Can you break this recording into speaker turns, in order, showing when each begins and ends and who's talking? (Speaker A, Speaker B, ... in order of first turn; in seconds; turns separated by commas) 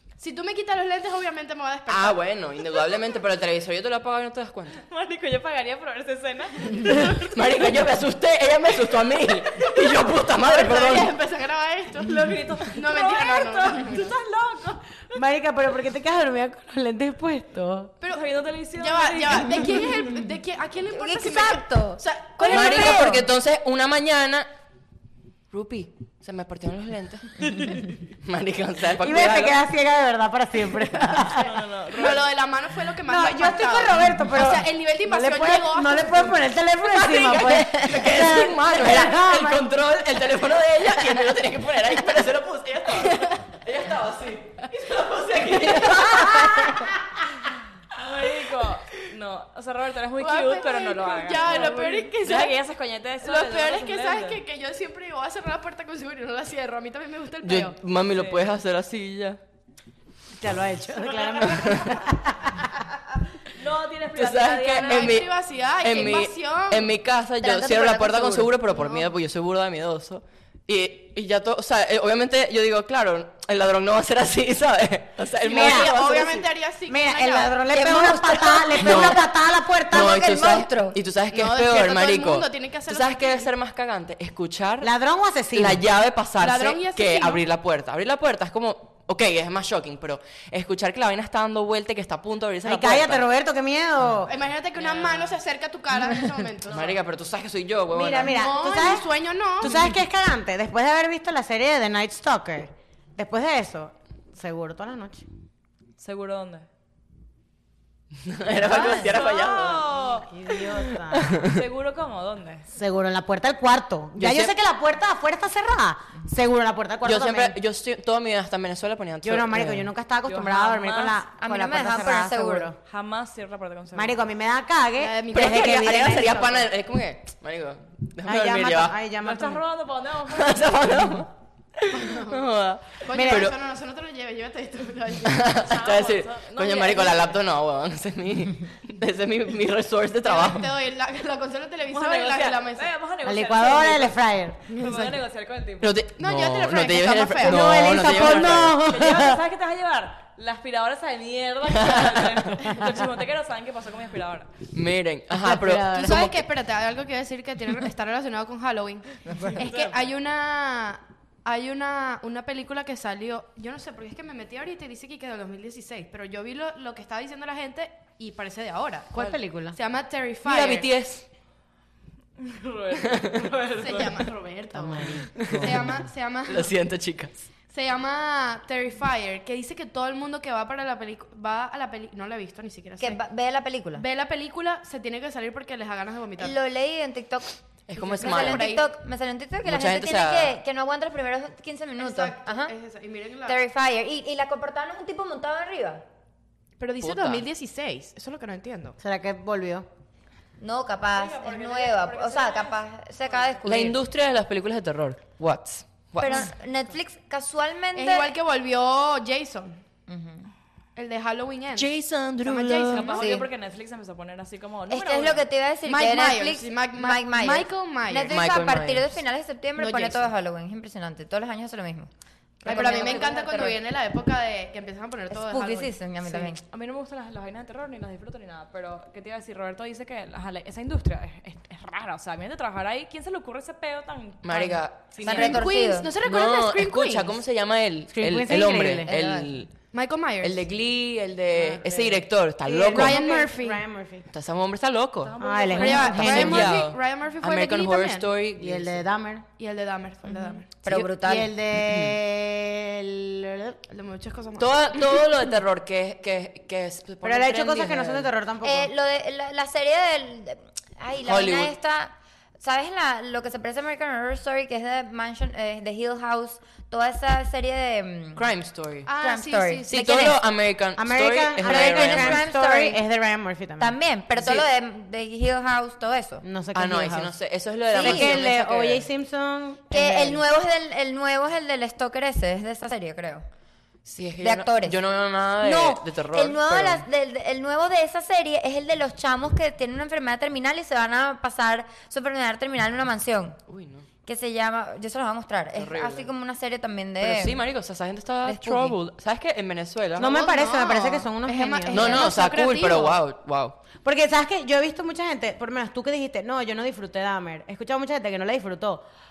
Speaker A: 0.2-2.2, Speaker B: 1.9-4.8, Speaker C: 4.8-7.9, Speaker B: 7.1-11.1, Speaker A: 10.3-14.1, Speaker C: 12.0-15.2, Speaker D: 15.1-17.9, Speaker A: 18.0-23.2, Speaker C: 18.1-20.0, Speaker E: 20.9-23.2, Speaker B: 22.5-24.5, Speaker B: 25.5-29.6, Speaker D: 29.0-31.6, Speaker C: 31.4-32.2, Speaker A: 31.9-36.5, Speaker D: 33.1-39.7, Speaker B: 36.8-47.0, Speaker A: 43.0-43.4, Speaker E: 46.2-46.7, Speaker C: 47.9-54.4, Speaker A: 50.2-52.5, Speaker A: 53.2-57.8, Speaker B: 57.4-59.4, Speaker C: 58.1-58.5, Speaker D: 60.4-62.7, Speaker C: 61.1-62.6, Speaker B: 61.4-62.0, Speaker C: 63.5-65.2, Speaker B: 64.1-76.5, Speaker A: 64.8-67.0, Speaker E: 67.4-68.6, Speaker A: 68.7-69.1, Speaker A: 75.4-77.6, Speaker D: 75.5-75.9, Speaker D: 76.9-80.2, Speaker E: 77.7-79.3, Speaker B: 78.8-79.2, Speaker E: 79.9-81.0, Speaker B: 79.9-84.9, Speaker A: 81.3-83.5, Speaker D: 84.8-85.8, Speaker B: 85.5-93.2, Speaker A: 86.4-87.4, Speaker D: 92.6-94.3, Speaker A: 94.3-97.0, Speaker C: 94.8-95.4, Speaker B: 96.7-98.4, Speaker D: 97.9-105.2, Speaker A: 98.2-99.9, Speaker C: 106.0-106.7, Speaker B: 108.2-109.9, Speaker C: 108.6-110.6, Speaker D: 108.7-109.1, Speaker D: 110.1-111.4, Speaker B: 111.1-111.6, Speaker C: 111.4-112.7, Speaker D: 112.7-117.5, Speaker B: 114.2-114.5, Speaker B: 117.0-119.9, Speaker D: 119.2-122.8, Speaker C: 120.3-121.2, Speaker E: 121.4-122.7, Speaker C: 122.8-124.2, Speaker D: 123.9-126.4, Speaker A: 125.0-126.7, Speaker B: 125.3-129.0, Speaker D: 128.2-129.6, Speaker C: 129.2-130.9, Speaker B: 130.3-133.5, Speaker A: 131.9-132.4, Speaker A: 133.0-135.6, Speaker D: 133.1-133.5, Speaker B: 135.2-140.7, Speaker C: 135.6-137.4, Speaker A: 140.2-142.9, Speaker C: 141.9-146.0, Speaker D: 143.2-145.0, Speaker B: 145.8-148.8, Speaker A: 146.2-147.7, Speaker D: 147.4-149.4, Speaker C: 148.1-154.5, Speaker B: 151.7-152.6, Speaker B: 154.7-156.4, Speaker D: 155.3-156.3, Speaker A: 156.0-170.9, Speaker E: 159.3-159.6, Speaker C: 159.6-160.0, Speaker D: 169.1-169.8, Speaker B: 170.4-171.2, Speaker C: 172.4-174.3, Speaker B: 173.0-173.5, Speaker A: 173.7-176.7, Speaker D: 174.7-176.0, Speaker B: 175.4-175.9, Speaker B: 176.5-177.4, Speaker A: 177.7-183.2, Speaker E: 183.0-184.0, Speaker A: 183.9-186.5, Speaker E: 186.4-187.5, Speaker B: 187.9-188.7, Speaker A: 188.0-188.9, Speaker E: 188.0-192.7, Speaker B: 189.6-190.6, Speaker A: 192.0-193.6, Speaker E: 193.4-196.0, Speaker A: 196.8-199.0, Speaker B: 197.0-197.4, Speaker D: 199.0-199.8, Speaker E: 200.6-204.0, Speaker C: 201.1-203.7, Speaker B: 203.7-206.5, Speaker E: 206.2-208.3, Speaker A: 207.9-209.8, Speaker E: 210.1-210.5, Speaker A: 210.9-211.9, Speaker B: 211.7-213.2, Speaker A: 212.4-213.2, Speaker C: 212.9-215.4, Speaker E: 213.1-213.5, Speaker E: 214.9-222.1, Speaker A: 215.8-218.3, Speaker B: 218.3-219.1, Speaker A: 219.8-220.3, Speaker E: 222.6-223.8, Speaker A: 222.6-226.5, Speaker E: 225.3-226.6, Speaker C: 226.6-235.5, Speaker B: 234.4-235.5, Speaker E: 235.2-236.1, Speaker A: 235.2-237.4, Speaker B: 236.2-239.8, Speaker D: 238.1-239.1, Speaker E: 239.1-239.5, Speaker A: 239.9-240.6, Speaker B: 240.4-243.2, Speaker D: 241.5-244.3, Speaker A: 242.8-243.8, Speaker B: 244.3-245.3, Speaker C: 245.2-246.6, Speaker D: 245.4-246.8, Speaker A: 245.8-248.3, Speaker B: 246.1-249.0, Speaker D: 248.6-249.4, Speaker A: 249.6-250.7, Speaker E: 250.8-251.5, Speaker D: 250.9-253.8, Speaker B: 251.8-252.1, Speaker A: 253.9-254.7, Speaker B: 254.6-258.3, Speaker D: 257.2-258.9, Speaker E: 258.6-268.4, Speaker B: 261.3-261.7, Speaker B: 268.4-269.1, Speaker A: 269.1-270.3, Speaker E: 269.2-270.4, Speaker B: 269.9-272.4, Speaker D: 270.9-273.9, Speaker E: 271.6-273.0, Speaker E: 273.8-276.4, Speaker B: 274.4-274.6, Speaker D: 276.4-277.3, Speaker B: 276.7-279.1, Speaker E: 277.9-278.4, Speaker D: 277.9-280.4, Speaker E: 279.9-283.4, Speaker B: 284.0-287.0, Speaker E: 284.4-285.0, Speaker E: 285.6-293.6, Speaker B: 293.7-294.1, Speaker E: 294.2-297.6, Speaker B: 295.7-296.3, Speaker B: 297.2-300.3, Speaker E: 298.4-299.0, Speaker D: 300.2-302.3, Speaker A: 300.2-303.2, Speaker B: 301.9-303.8, Speaker D: 304.0-309.0